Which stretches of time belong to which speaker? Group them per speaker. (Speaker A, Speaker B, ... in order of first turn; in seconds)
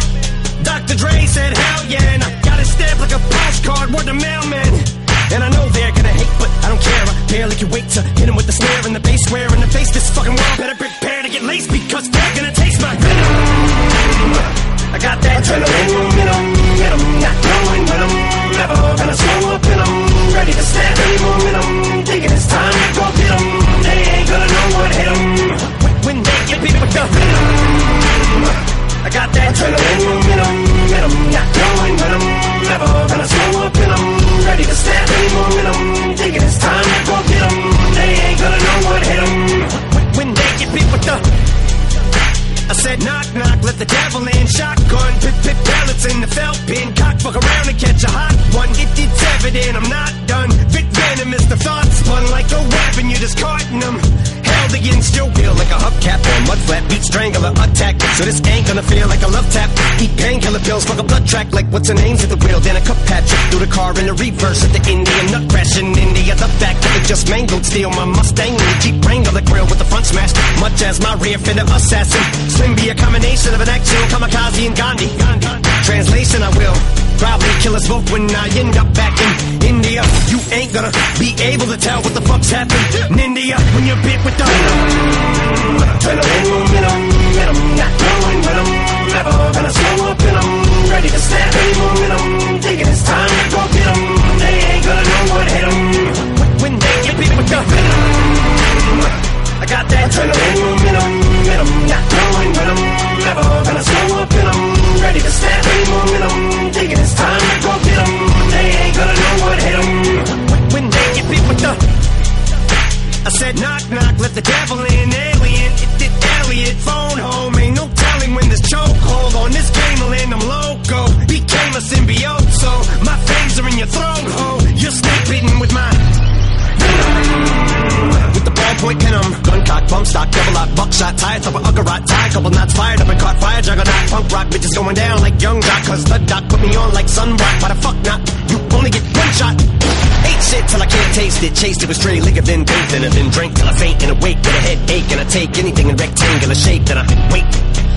Speaker A: 0.6-41.2, 42.7-111.8, 113.2-126.2, 126.8-147.7